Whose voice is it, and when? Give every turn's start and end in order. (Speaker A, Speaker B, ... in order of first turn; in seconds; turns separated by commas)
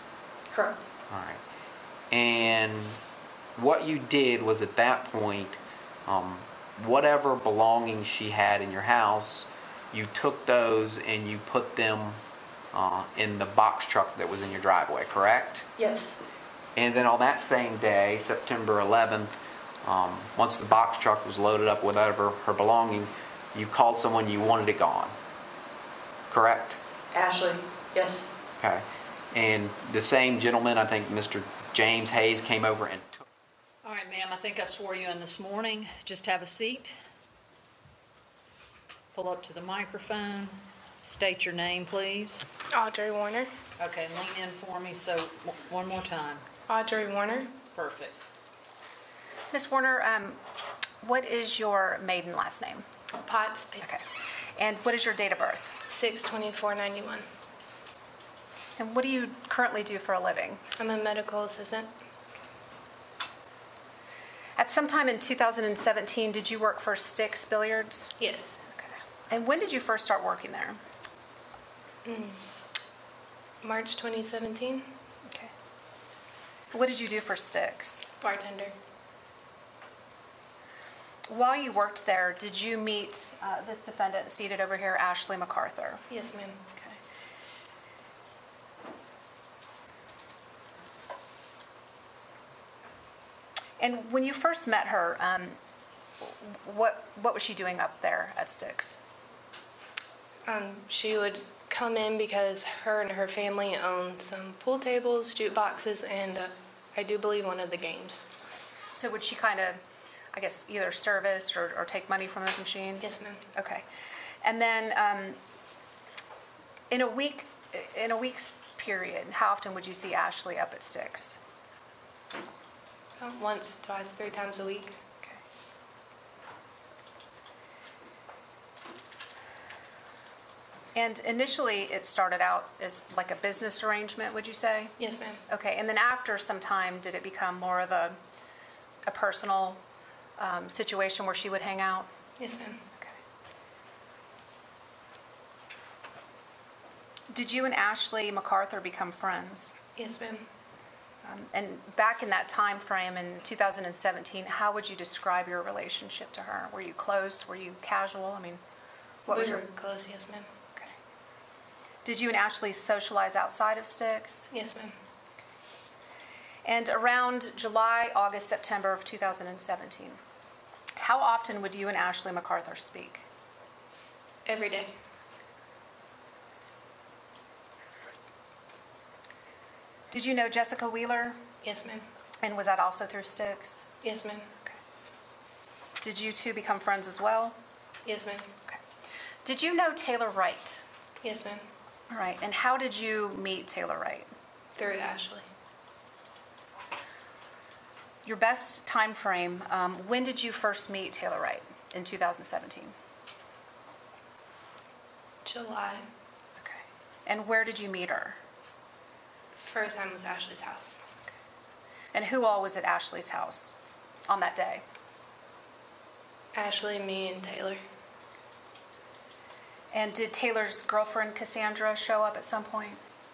Speaker A: 0.5-0.8, Speaker B: 1.1-1.4, Speaker B: 2.1-3.0, Speaker B: 3.5-12.2, Speaker B: 12.7-15.7, Speaker A: 15.8-16.1, Speaker B: 16.8-19.3, Speaker B: 19.8-25.1, Speaker B: 26.3-26.8, Speaker A: 27.1-28.2, Speaker B: 28.6-33.2, Speaker C: 33.8-37.0, Speaker C: 39.1-42.4, Speaker D: 42.7-43.5, Speaker C: 43.8-46.4, Speaker D: 46.7-47.6, Speaker C: 47.7-48.2, Speaker E: 49.5-50.4, Speaker E: 51.0-52.8, Speaker D: 53.1-53.9, Speaker E: 54.5-55.8, Speaker D: 55.9-57.3, Speaker E: 58.8-60.6, Speaker D: 60.8-61.9, Speaker E: 64.6-68.1, Speaker D: 68.2-68.6, Speaker E: 68.8-70.8, Speaker D: 72.0-72.4, Speaker D: 73.6-74.9, Speaker E: 76.7-78.1, Speaker D: 78.2-78.7, Speaker E: 81.3-86.0, Speaker D: 86.1-86.6, Speaker E: 93.8-95.6, Speaker E: 96.2-99.0, Speaker D: 100.4-108.3, Speaker E: 108.9-109.8, Speaker E: 110.3-113.8, Speaker D: 113.0-113.4, Speaker E: 114.4-115.4, Speaker E: 116.9-121.4, Speaker D: 123.2-125.0, Speaker E: 130.9-135.0, Speaker D: 135.0-135.4, Speaker E: 135.5-138.2, Speaker E: 139.1-139.8, Speaker E: 140.4-142.1, Speaker D: 142.4-142.8, Speaker E: 147.3-149.7, Speaker D: 149.9-150.5, Speaker E: 151.2-158.6, Speaker E: 159.2-159.6, Speaker D: 159.3-160.5, Speaker E: 162.0-164.5, Speaker D: 164.5-164.9, Speaker E: 166.6-170.2, Speaker E: 170.9-173.2, Speaker D: 174.4-174.9, Speaker E: 180.1-181.4, Speaker D: 181.6-182.1, Speaker E: 182.4-183.9, Speaker D: 184.0-184.5, Speaker E: 186.0-187.6, Speaker D: 188.0-188.5, Speaker E: 189.4-190.8, Speaker D: 191.2-191.7, Speaker E: 192.1-194.3, Speaker D: 194.8-195.4, Speaker E: 198.2-202.9, Speaker D: 205.4-206.1, Speaker E: 206.6-208.4, Speaker D: 209.6-211.0, Speaker E: 212.1-213.8, Speaker E: 214.3-214.8, Speaker D: 216.5-217.8, Speaker E: 219.9-223.0